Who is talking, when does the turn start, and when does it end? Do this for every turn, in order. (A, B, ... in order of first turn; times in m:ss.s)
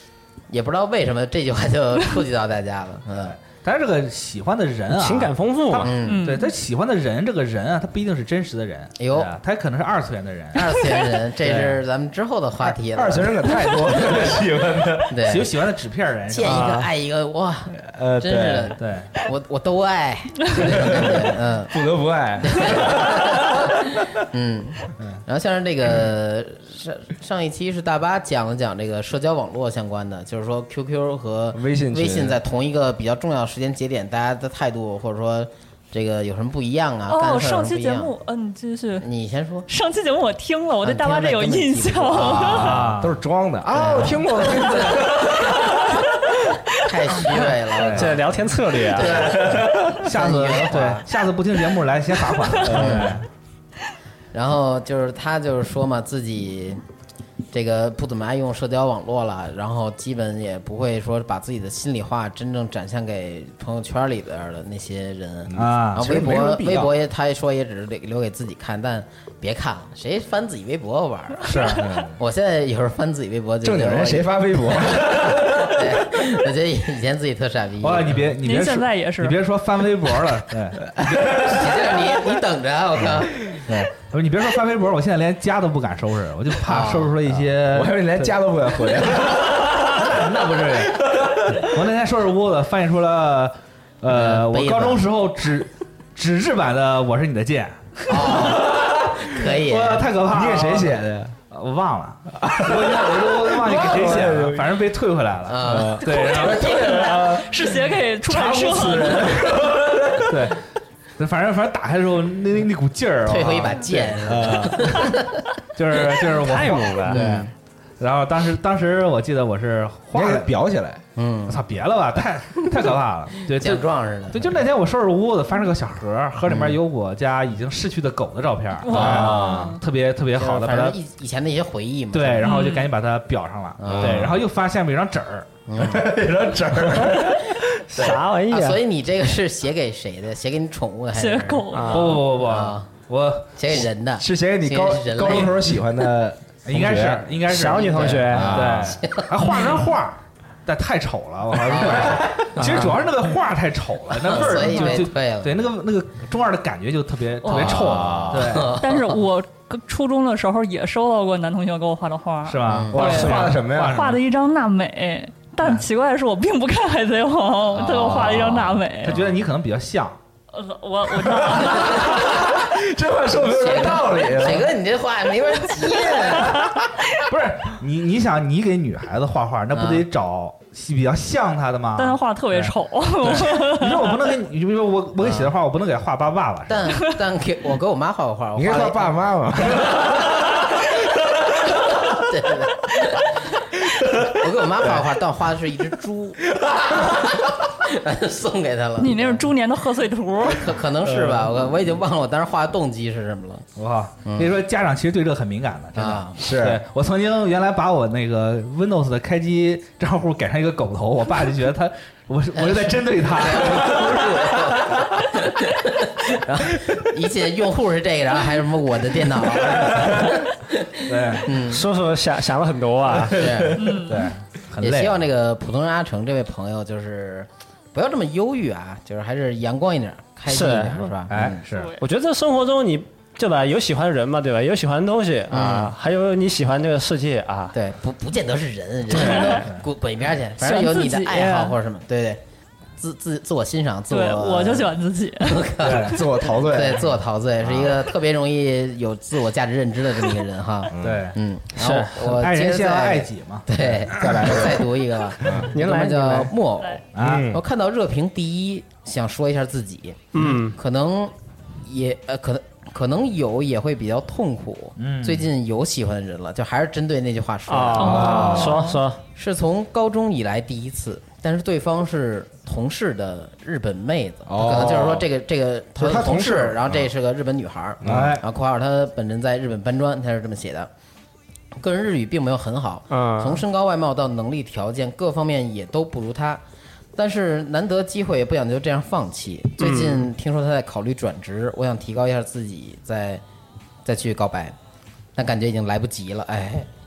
0:00.5-0:03.4 A
0:03.2-0:05.3 B
0:04.9-0:05.9 C
0:05.8-0:06.3 A
0:06.0-0:06.6 D
0:06.2-0:10.7 B
0:09.0-0:09.3 A
0:10.5-0:14.4 A
0:11.4-0:11.8 B
0:12.9-0:15.2 E
0:15.1-0:15.5 A
0:15.2-0:16.8 B
0:16.3-0:21.7 A
0:16.4-0:16.9 C
0:17.8-0:18.8 E
0:18.8-0:19.1 B
0:20.6-0:23.8 E
0:22.4-0:38.1 A
0:31.5-0:32.4 E
0:37.1-0:39.1 D
0:39.0-0:39.7 A
0:39.7-0:42.7 D
0:40.8-0:42.9 A
0:42.4-0:43.2 B
0:42.7-0:46.0 E
0:43.7-0:45.7 A
0:46.8-0:48.2 A
0:47.7-0:48.2 B
0:47.9-0:49.1 C
0:48.9-0:51.1 A
0:49.1-0:49.9 E
0:49.3-0:53.2 B
0:52.6-0:53.2 E
0:52.7-0:53.2 A
0:54.3-0:56.8 A
0:57.5-1:18.3 A
1:05.5-1:06.9 E
1:05.6-1:06.2 B
1:11.5-1:11.8 B
1:11.7-1:12.2 E
1:13.6-1:15.9 E
1:17.8-1:21.4 B
1:18.4-1:19.4 D
1:21.0-1:21.6 E
1:21.3-1:23.9 A
1:23.9-1:28.3 B
1:26.6-1:27.2 A
1:27.3-1:30.1 E
1:29.3-1:38.5 B
1:31.1-1:31.6 E
1:34.1-1:35.1 A
1:38.1-1:40.1 A
1:39.6-1:46.7 B
1:40.3-1:41.3 E
1:42.4-1:44.8 E
1:45.5-1:46.0 A
1:45.6-1:47.7 E
1:46.0-1:49.4 D
1:48.3-1:50.5 E
1:50.3-1:50.6 B
1:51.2-1:54.1 B
1:53.2-1:55.4 A
1:54.0-1:55.0 E
1:55.8-2:00.5 B
1:56.3-1:57.2 C
1:57.1-1:57.5 A
2:00.1-2:01.0 E
2:01.2-2:01.6 A
2:01.5-2:11.0 B
2:03.5-2:04.6 A
2:06.5-2:06.8 A
2:08.8-2:09.8 D
2:08.9-2:09.8 E
2:10.4-2:12.6 A
2:12.1-2:15.5 B
2:12.4-2:12.9 D
2:13.8-2:14.3 A
2:13.9-2:14.4 E
2:15.7-2:16.1 A
2:15.8-2:17.6 E
2:17.9-2:18.8 C
2:18.5-2:22.9 A
2:21.1-2:22.2 D
2:21.7-2:22.1 C
2:21.9-2:23.5 B
2:23.6-2:25.6 A
2:23.7-2:27.5 E
2:26.7-2:38.8 B
2:27.5-2:28.6 C
2:27.7-2:29.8 A
2:28.3-2:29.0 E
2:31.6-2:32.3 A
2:34.2-2:35.7 A
2:37.4-2:37.9 D
2:37.5-2:38.7 E
2:38.1-2:39.2 A
2:38.8-2:49.2 D
2:42.4-2:44.2 B
2:42.7-2:43.0 A
2:42.9-2:44.1 E
2:47.9-2:48.7 E
2:49.0-2:50.2 B
2:50.5-2:52.3 D
2:51.3-2:54.7 E
2:53.4-2:56.7 A
2:57.3-3:06.9 B
2:59.7-3:00.1 A
3:02.0-3:04.2 D
3:05.2-3:05.6 A
3:06.7-3:09.1 A
3:08.6-3:10.2 E
3:09.7-3:10.1 A
3:12.1-3:13.3 A
3:14.1-3:19.4 A
3:19.0-3:20.8 D
3:20.5-3:23.7 A
3:21.1-3:21.5 E
3:23.8-3:34.7 B
3:24.2-3:24.5 A
3:26.0-3:26.4 A
3:26.4-3:26.8 E
3:32.6-3:41.8 A
3:41.1-3:41.5 B
3:41.7-3:43.5 C
3:43.2-3:44.0 A
3:43.8-3:44.3 D
3:44.0-3:45.2 B
3:44.8-3:51.6 A
3:50.5-3:51.1 C
3:51.3-3:52.0 B
3:51.7-3:52.0 D
3:52.0-3:57.8 C
3:55.5-3:55.9 A
3:57.7-4:02.4 A
3:59.2-3:59.6 D
3:59.3-3:59.8 B
4:00.6-4:01.7 D
4:03.0-4:28.8 A
4:04.1-4:05.7 D
4:05.8-4:06.2 B
4:05.9-4:08.0 E
4:10.9-4:11.3 E
4:11.0-4:11.4 B
4:11.8-4:12.2 C
4:12.2-4:13.7 B
4:13.8-4:14.8 E
4:15.4-4:15.7 E
4:15.7-4:16.6 C
4:17.1-4:17.5 B
4:17.2-4:17.6 E
4:20.3-4:20.8 C
4:25.0-4:25.5 B
4:27.7-4:29.2 C
4:28.0-4:29.0 D
4:29.4-4:40.9 A
4:34.5-4:35.3 E
4:36.0-4:37.1 E
4:38.0-4:38.4 E
4:38.0-4:38.4 B
4:41.8-4:46.6 A
4:43.1-4:43.6 C
4:47.2-4:53.4 A
4:49.8-4:50.3 C
4:54.0-4:54.8 A
4:55.4-4:56.9 A